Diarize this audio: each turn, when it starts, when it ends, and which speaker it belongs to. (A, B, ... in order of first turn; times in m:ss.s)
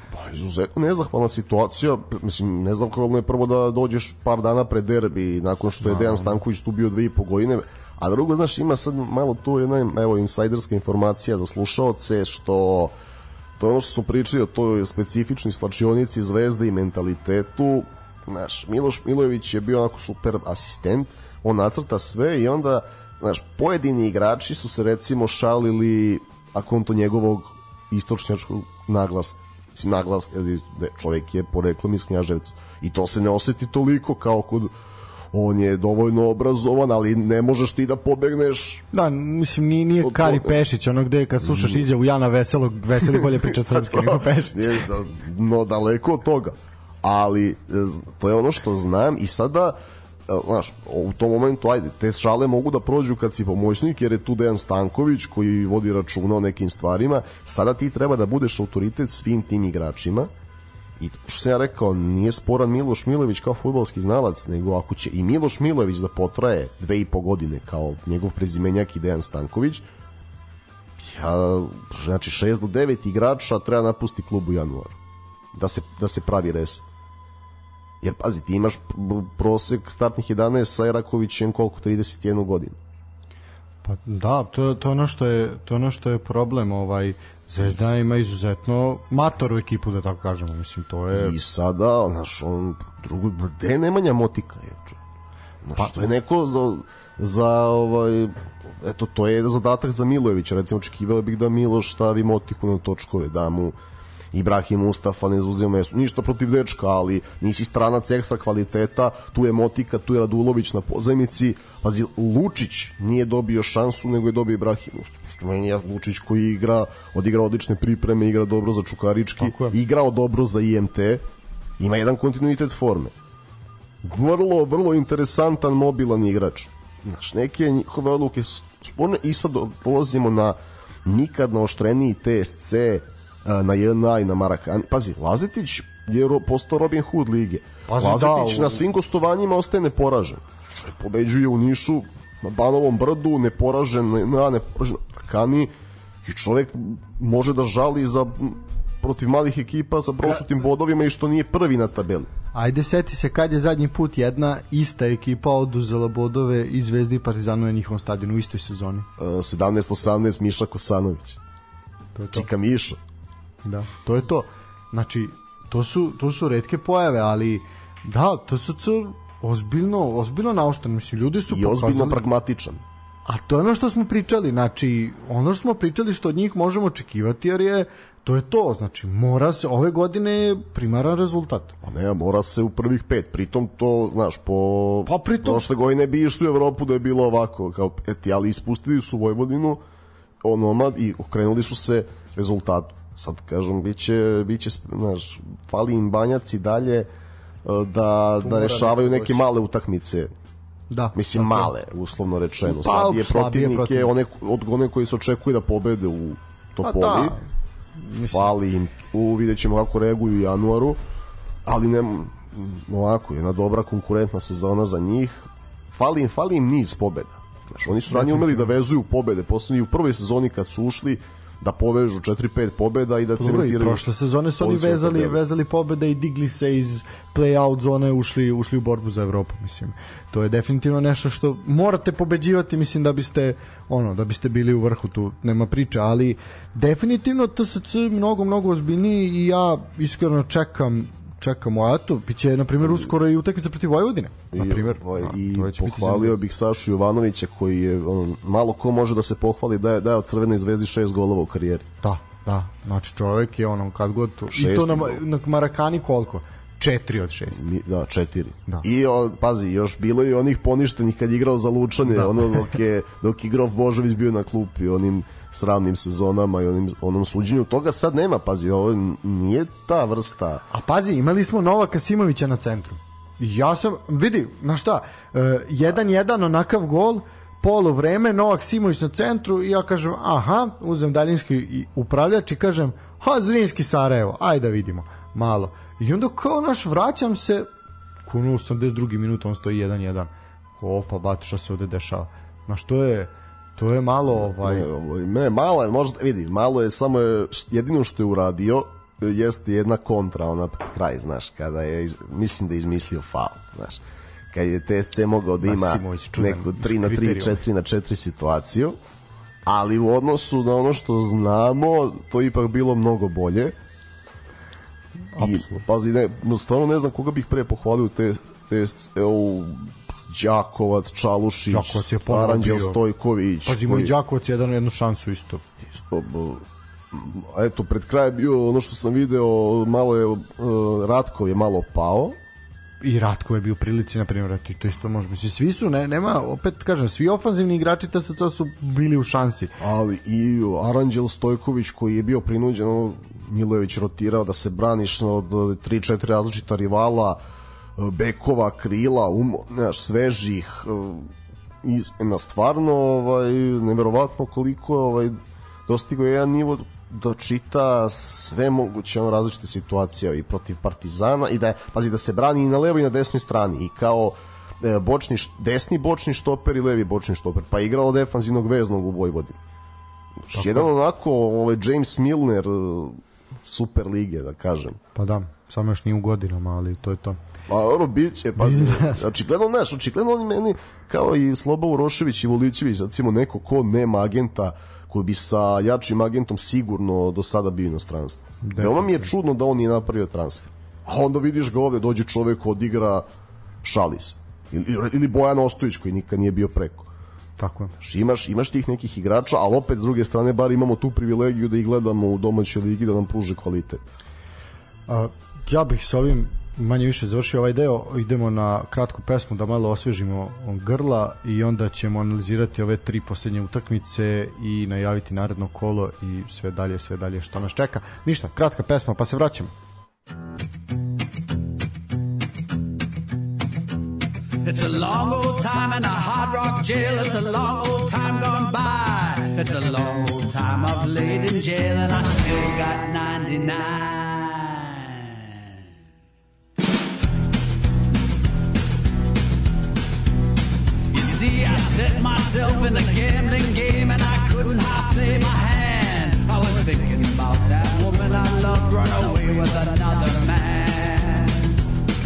0:00.1-0:12.9 A
0:05.8-0:06.4 B
0:13.6-0:34.7 A
0:35.3-0:38.8 A
0:38.9-0:44.9 B
0:40.0-0:40.6 A
0:41.4-0:41.8 A
0:43.1-1:00.3 A
1:01.0-1:09.8 A
1:11.0-1:15.0 A
1:15.5-1:16.8 A
1:18.0-1:22.8 A
1:23.8-1:31.4 B
1:31.1-1:35.0 A
1:35.6-1:43.8 A
1:44.3-2:01.2 A
1:59.4-1:59.8 B
2:01.8-2:03.1 A
2:04.0-2:25.7 A
2:17.9-2:18.8 B
2:26.2-2:32.3 A
2:32.5-2:39.1 B
2:39.2-2:41.4 A
2:42.2-2:42.5 B
2:42.3-2:43.0 A
2:43.6-2:52.2 B
2:51.5-2:52.8 A
2:53.3-3:01.8 B
3:01.8-3:09.8 A
3:05.1-3:05.7 B
3:10.4-3:17.1 A
3:17.6-3:20.3 A
3:18.4-3:19.4 B
3:20.9-3:21.7 B
3:21.1-3:27.4 A
3:22.6-3:24.1 B
3:26.8-3:27.4 B
3:28.0-3:28.5 B
3:28.3-3:31.0 A
3:31.6-3:44.1 A
3:38.1-3:38.7 B
3:43.4-4:06.4 B
3:44.6-3:45.4 A
4:04.5-4:11.9 A
4:12.0-4:17.7 B
4:14.5-4:15.2 A
4:17.6-4:30.6 A
4:22.1-4:22.6 B
4:30.7-4:47.7 B
4:48.3-4:54.9 B
4:54.4-5:09.0 A
5:05.6-5:07.6 B
5:09.6-5:13.7 A
5:15.4-5:15.8 B
5:15.4-5:24.1 A
5:21.7-5:23.0 B
5:23.6-5:25.6 B
5:25.9-5:32.4 A
5:33.0-5:39.8 B
5:39.8-5:47.4 A
5:48.0-5:51.3 A
5:51.8-5:55.4 A
5:55.9-6:09.6 A
6:10.4-6:15.0 A
6:10.5-6:10.9 B
6:15.2-6:17.4 B
6:17.7-6:33.2 A
6:18.6-6:19.2 B
6:28.6-6:29.3 B
6:33.8-6:37.1 A
6:37.6-6:38.0 B
6:38.0-6:44.0 A
6:45.1-6:59.7 B
7:04.6-7:15.7 C
7:21.1-7:31.8 C